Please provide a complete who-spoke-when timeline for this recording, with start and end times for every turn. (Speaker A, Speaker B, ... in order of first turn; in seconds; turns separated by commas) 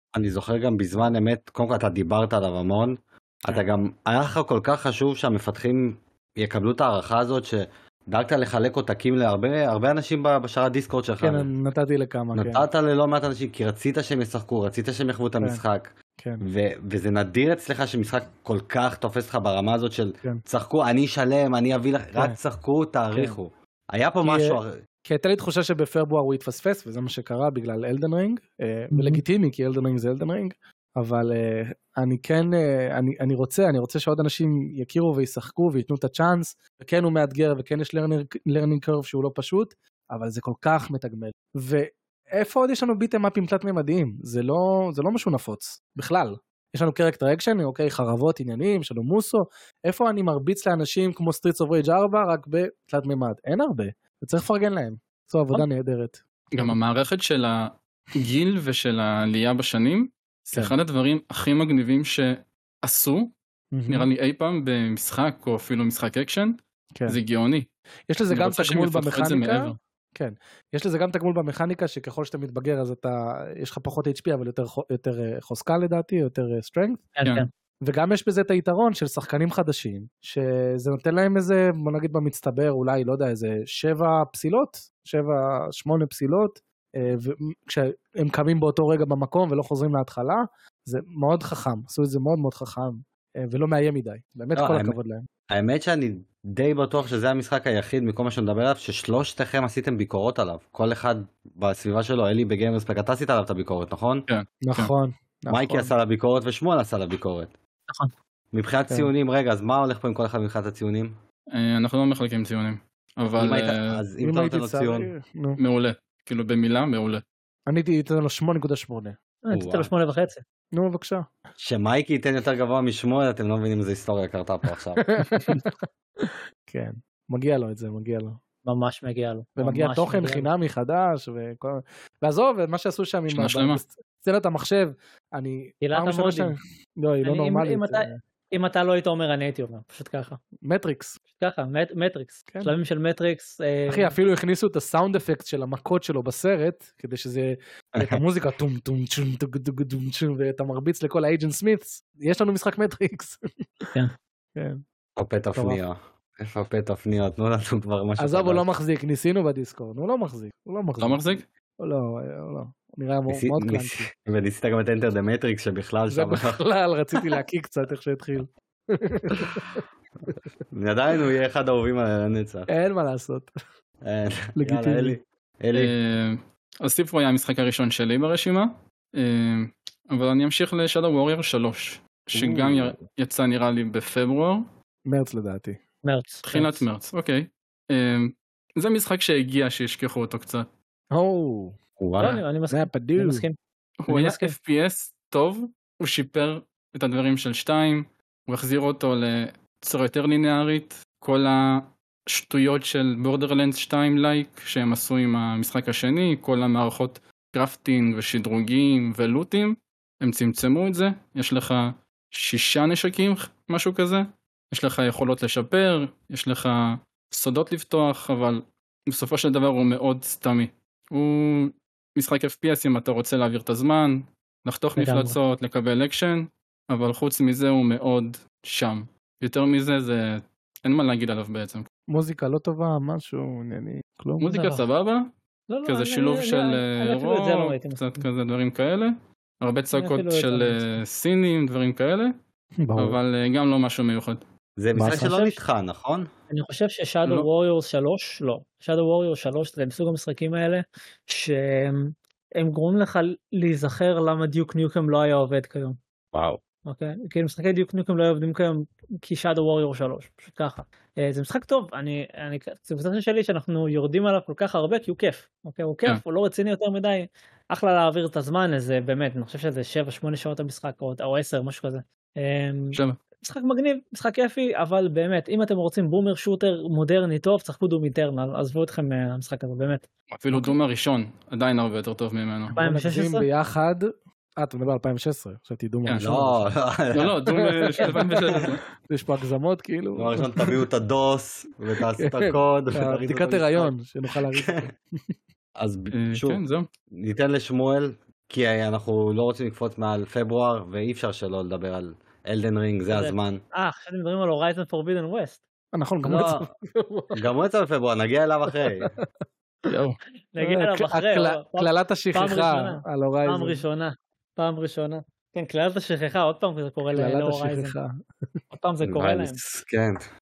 Speaker A: 0.1-11.5, Speaker B: 11.2-12.7, Speaker A: 12.3-24.7, Speaker B: 24.2-56.8, Speaker C: 28.9-29.2, Speaker D: 56.5-63.3, Speaker B: 63.7-64.1, Speaker D: 63.9-67.7, Speaker B: 68.1-77.1, Speaker D: 68.3-69.8, Speaker C: 77.2-77.5, Speaker B: 77.8-95.3, Speaker A: 94.6-94.9, Speaker A: 95.5-104.3, Speaker D: 104.3-104.9, Speaker B: 104.6-105.9, Speaker A: 105.5-107.5, Speaker A: 108.5-111.2, Speaker D: 111.5-114.0, Speaker A: 113.4-115.1, Speaker B: 114.2-115.6, Speaker D: 115.6-117.2, Speaker B: 117.7-119.2, Speaker C: 119.5-120.4, Speaker A: 119.5-119.9, Speaker B: 120.8-121.3, Speaker A: 121.6-125.6, Speaker B: 125.1-128.4, Speaker C: 128.6-130.5, Speaker B: 129.6-138.2, Speaker D: 133.3-133.8, Speaker C: 135.8-136.6, Speaker C: 137.2-140.4, Speaker B: 140.7-141.2, Speaker C: 141.4-144.1, Speaker B: 143.9-153.4, Speaker B: 154.6-154.8, Speaker A: 155.2-158.6, Speaker B: 155.6-155.8, Speaker B: 158.2-161.2, Speaker D: 161.0-161.4, Speaker B: 161.8-164.1, Speaker A: 163.3-166.6, Speaker B: 166.1-170.4, Speaker A: 170.7-172.7, Speaker B: 172.7-173.5, Speaker A: 174.0-175.9, Speaker B: 174.6-175.2, Speaker D: 175.7-184.7, Speaker A: 182.3-183.0, Speaker B: 185.1-185.8, Speaker C: 186.0-186.8, Speaker D: 186.5-190.7, Speaker B: 191.1-191.8, Speaker A: 192.0-192.4, Speaker C: 192.2-193.6, Speaker B: 192.7-193.4, Speaker D: 194.0-231.9, Speaker C: 194.1-194.5, Speaker C: 225.0-225.4, Speaker B: 232.1-234.5, Speaker D: 234.4-235.3, Speaker C: 234.5-234.8, Speaker C: 235.7-238.2, Speaker D: 235.9-242.3, Speaker C: 239.9-240.9, Speaker B: 242.8-243.2, Speaker D: 243.0-244.4, Speaker A: 244.8-246.3, Speaker B: 245.0-245.3, Speaker C: 245.0-245.6, Speaker C: 246.5-256.0, Speaker A: 256.3-256.6, Speaker C: 256.9-280.1, Speaker D: 280.4-282.8, Speaker B: 282.7-284.1, Speaker C: 282.8-283.4, Speaker B: 284.6-286.7, Speaker A: 286.2-288.6, Speaker D: 287.1-288.8, Speaker B: 287.5-290.8, Speaker A: 290.2-293.9, Speaker B: 292.2-295.3, Speaker A: 294.5-294.9, Speaker A: 295.8-296.6, Speaker D: 296.1-296.9, Speaker A: 297.1-303.6, Speaker C: 303.1-305.6, Speaker B: 305.9-307.5, Speaker A: 306.2-306.7, Speaker A: 307.4-309.1, Speaker B: 308.7-309.2, Speaker D: 309.9-310.2, Speaker C: 310.5-317.9, Speaker B: 310.6-313.8, Speaker B: 317.1-318.1, Speaker C: 318.7-319.6, Speaker A: 319.0-320.2